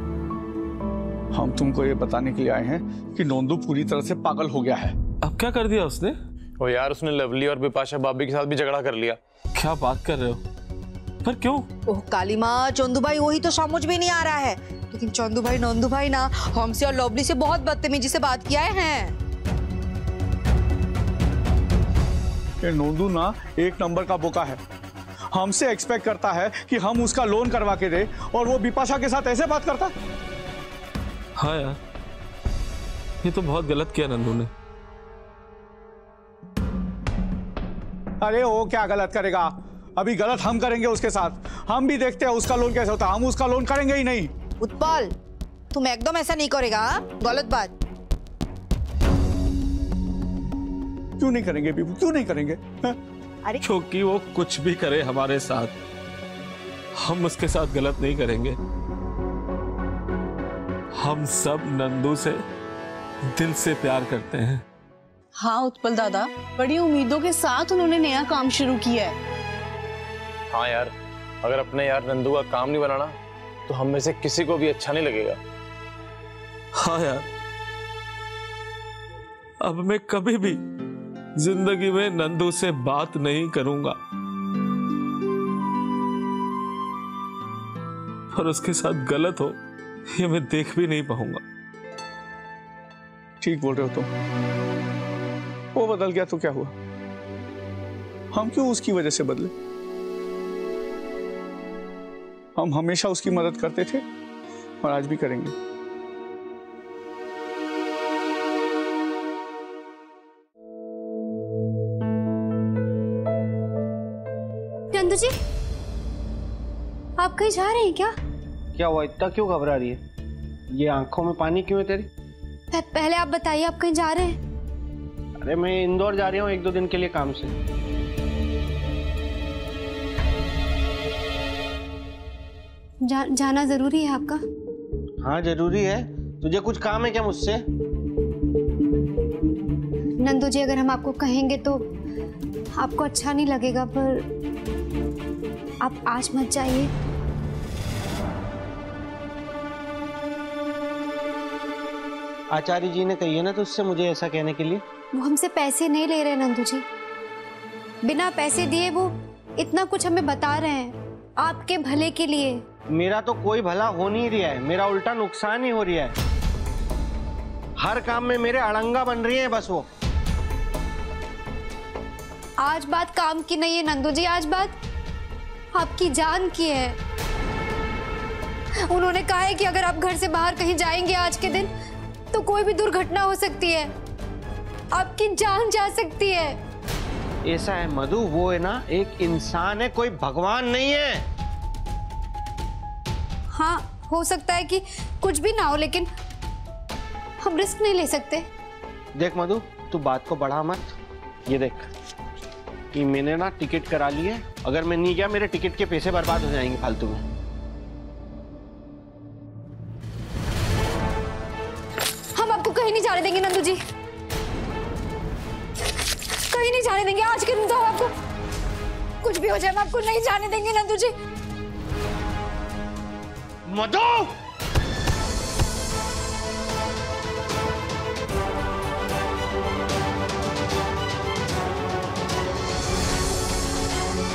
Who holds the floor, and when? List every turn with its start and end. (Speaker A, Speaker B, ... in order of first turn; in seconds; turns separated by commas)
Speaker A: 1.3-4.9, Speaker B: 5.2-6.1, Speaker C: 6.6-9.2, Speaker B: 9.6-10.4, Speaker B: 11.2-11.7, Speaker D: 11.9-19.1, Speaker A: 22.6-24.6, Speaker A: 25.3-29.9, Speaker B: 31.4-31.8, Speaker B: 33.2-34.5, Speaker A: 38.2-44.3, Speaker D: 44.6-45.1, Speaker D: 45.7-47.7, Speaker A: 51.2-53.0, Speaker B: 53.6-55.7, Speaker B: 57.0-58.6, Speaker B: 60.9-62.4, Speaker B: 63.3-64.6, Speaker E: 65.4-69.2, Speaker C: 70.5-73.2, Speaker C: 73.7-75.4, Speaker B: 76.8-77.3, Speaker B: 79.6-80.6, Speaker B: 81.4-84.0, Speaker B: 88.3-89.6, Speaker B: 90.1-91.4, Speaker A: 93.4-94.1, Speaker A: 95.8-96.7, Speaker A: 98.3-99.5, Speaker A: 102.6-104.0, Speaker A: 104.8-105.5, Speaker F: 114.9-115.3, Speaker F: 117.2-118.2, Speaker G: 118.7-120.0, Speaker G: 120.7-122.1, Speaker F: 122.7-124.4, Speaker G: 125.4-127.5, Speaker F: 133.0-134.4, Speaker G: 135.2-137.6, Speaker F: 140.2-141.9, Speaker F: 142.8-144.3, Speaker F: 145.8-146.9, Speaker G: 152.5-154.8, Speaker F: 155.1-156.8, Speaker F: 158.0-162.6, Speaker G: 162.9-166.2, Speaker G: 167.8-169.9, Speaker F: 172.6-174.8, Speaker F: 175.7-177.0, Speaker F: 178.9-181.7, Speaker F: 182.3-183.9, Speaker F: 184.9-186.6, Speaker G: 187.5-191.2, Speaker F: 193.5-196.1, Speaker F: 197.4-198.5, Speaker G: 199.2-200.9, Speaker G: 201.5-201.9, Speaker G: 202.9-207.2, Speaker F: 212.3-213.8, Speaker F: 216.5-218.1, Speaker F: 219.2-221.1, Speaker G: 223.7-224.3